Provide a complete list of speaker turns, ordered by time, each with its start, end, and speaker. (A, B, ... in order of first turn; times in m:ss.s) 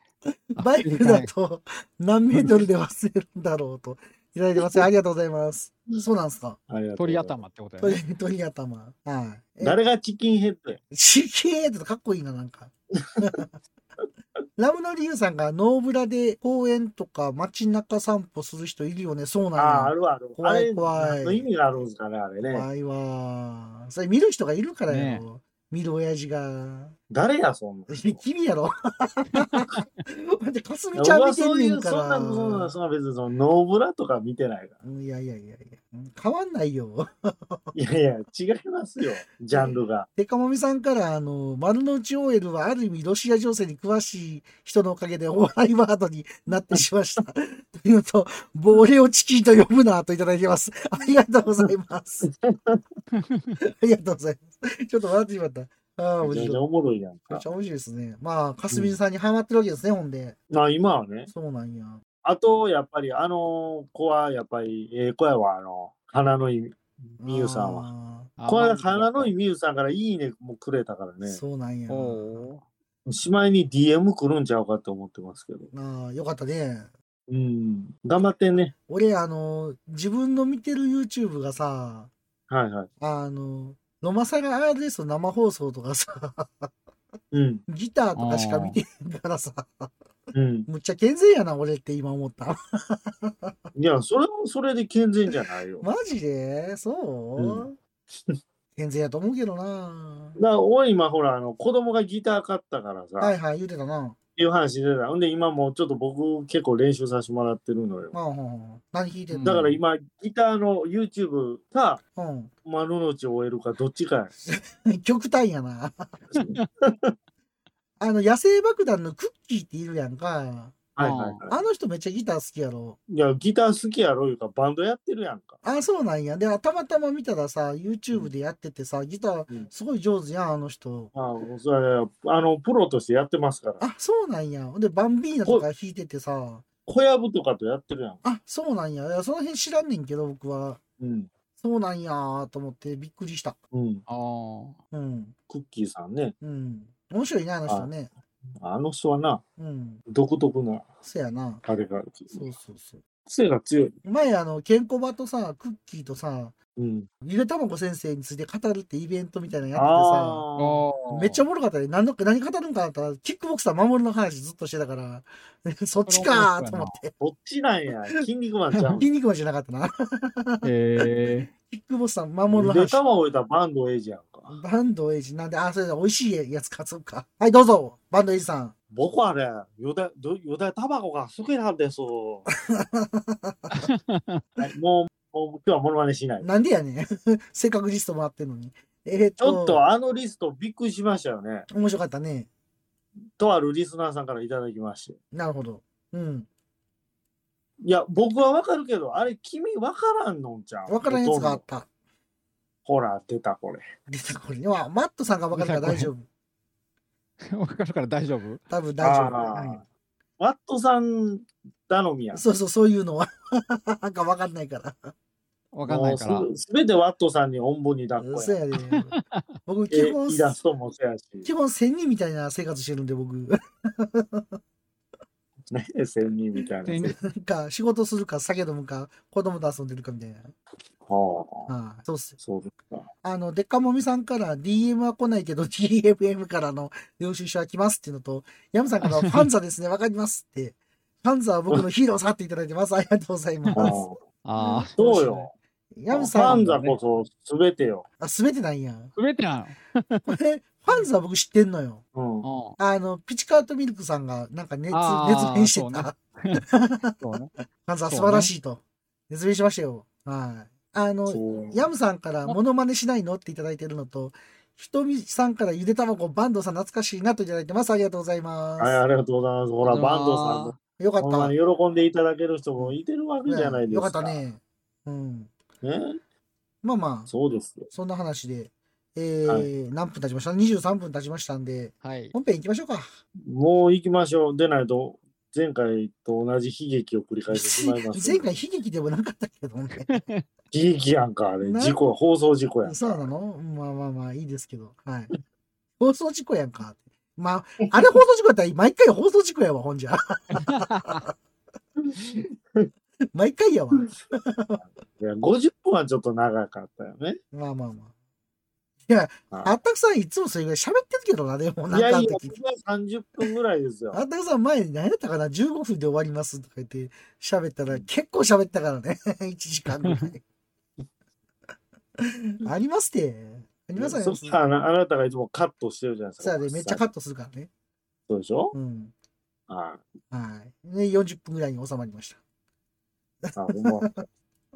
0:00.6-0:01.3 A
0:00.6-0:06.6 B
0:06.7-0:07.4 C
0:07.0-0:08.0 A
0:07.8-0:09.8 B
0:09.6-0:10.8 C
0:10.9-0:13.5 B
0:14.6-0:21.5 B
0:19.6-0:22.7 C
0:22.4-0:26.9 B
0:24.9-0:25.2 A
0:27.1-0:28.2 C
0:27.9-0:32.7 B
0:30.9-0:34.8 C
0:34.8-0:37.7 B
0:37.7-0:40.1 C
0:39.5-0:52.3 B
0:52.3-0:52.8 C
0:53.2-0:53.5 A
0:53.6-0:56.6 B
0:56.2-0:57.4 C
0:57.3-1:00.4 B
0:58.7-0:59.0 C
1:00.5-1:01.3 C
1:01.3-1:02.0 B
1:02.2-1:07.9 C
1:07.2-1:08.3 B
1:08.4-1:09.3 A
1:08.5-1:11.4 C
1:11.2-1:12.5 B
1:11.9-1:12.6 A
1:13.1-1:15.7 C
1:15.7-1:16.9 B
1:17.3-1:18.7 C
1:18.9-1:22.1 B
1:22.5-1:22.9 C
1:23.0-1:26.7 B
1:27.3-1:27.6 C
1:27.7-1:29.9 B
1:28.2-1:28.8 A
1:30.3-1:30.7 C
1:30.7-1:33.5 B
1:33.7-1:35.8 C
1:35.8-1:37.8 B
1:37.4-1:37.7 C
1:38.7-1:40.4 B
1:40.4-1:43.3 C
1:43.2-1:44.2 B
1:44.4-1:48.1 C
1:48.1-1:49.6 B
1:49.3-1:49.8 A
1:49.4-1:52.0 C
1:52.2-1:52.5 B
1:52.6-1:54.3 C
1:54.5-1:56.1 B
1:56.3-1:57.1 C
1:58.0-2:00.8 B
2:01.0-2:01.6 C
2:01.0-2:01.4 A
2:01.5-2:03.0 B
2:03.1-2:05.6 C
2:05.6-2:11.1 B
2:11.1-2:13.8 C
2:13.8-2:16.6 B
2:16.8-2:18.2 C
2:18.2-2:20.8 B
2:21.0-2:21.3 C
2:21.6-2:23.6 B
2:23.7-2:24.0 C
2:24.1-2:24.8 A
2:24.9-2:25.3 B
2:25.5-2:26.3 C
2:26.4-2:28.1 B
2:28.6-2:29.4 C
2:29.6-2:30.0 B
2:30.1-2:30.8 C
2:31.0-2:31.6 B
2:31.6-2:32.5 C
2:32.3-2:33.0 B
2:33.2-2:34.0 C
2:34.0-2:36.5 B
2:36.8-2:37.1 C
2:37.2-2:40.4 B
2:39.7-2:40.8 C
2:40.6-2:41.4 A
2:41.1-2:47.1 B
2:46.1-2:46.9 A
2:47.2-2:49.1 C
2:48.9-2:50.7 B
2:50.6-2:51.5 A
2:51.7-2:53.0 B
2:52.5-2:54.6 C
2:54.5-2:58.7 B
2:58.9-3:02.4 C
3:02.7-3:03.8 B
3:03.8-3:04.4 A
3:04.6-3:06.5 C
3:06.4-3:09.8 B
3:09.4-3:11.6 C
3:11.7-3:12.5 B
3:13.4-3:15.2 C
3:15.3-3:16.5 B
3:17.8-3:21.6 C
3:20.9-3:21.9 B
3:22.8-3:23.9 C
3:24.1-3:26.2 B
3:25.5-3:26.1 A
3:27.5-3:28.6 A
3:28.7-3:29.8 B
3:29.0-3:29.8 C
3:30.4-3:32.4 C
3:32.3-3:35.1 B
3:35.7-3:36.5 A
3:35.8-3:38.6 C
3:38.2-3:39.1 B
3:38.9-3:39.4 A
3:39.7-3:40.5 B
3:39.9-3:41.5 C
3:41.4-3:44.4 B
3:45.7-3:47.1 C
3:46.8-3:47.2 A
3:47.2-3:50.5 B
3:51.0-3:51.7 C
3:51.7-3:52.4 B
3:52.4-3:53.1 C
3:53.2-4:03.9 B
3:59.1-3:59.4 A
4:03.8-4:04.2 C
4:04.4-4:05.4 A
4:04.6-4:05.1 B
4:05.0-4:05.5 C
4:05.9-4:06.6 B
4:06.1-4:08.0 C
4:06.4-4:06.9 A
4:08.2-4:09.1 B
4:09.2-4:10.4 A
4:10.3-4:12.0 B
4:12.1-4:12.4 C
4:12.4-4:12.8 A
4:12.8-4:17.2 B
4:14.9-4:16.6 A
4:17.2-4:17.5 A
4:17.8-4:29.0 B
4:18.1-4:18.5 A
4:21.3-4:21.9 C
4:28.8-4:34.4 C
4:29.8-4:30.7 A
4:31.0-4:31.5 B
4:33.4-4:35.5 B
4:35.8-4:36.2 C
4:36.8-4:37.3 B
4:37.3-4:37.9 C
4:37.9-4:43.1 B
4:42.0-4:42.3 A
4:43.4-4:48.5 C
4:47.5-4:50.2 B
4:50.1-4:50.4 A
4:50.7-4:53.3 C
4:51.6-4:52.0 B
4:52.8-4:55.3 B
4:56.0-5:01.3 B
5:00.7-5:01.2 A
5:02.0-5:02.9 C
5:03.3-5:04.8 B
5:04.8-5:07.4 C
5:07.5-5:08.1 B
5:09.1-5:12.6 B
5:11.9-5:14.2 C
5:14.1-5:20.4 B
5:22.2-5:24.6 B
5:24.0-5:27.0 C
5:26.4-5:27.7 B
5:28.3-5:28.7 C
5:28.7-5:29.1 B
5:29.7-5:30.0 C
5:30.3-5:32.4 B
5:33.4-5:34.2 B
5:33.6-5:34.2 C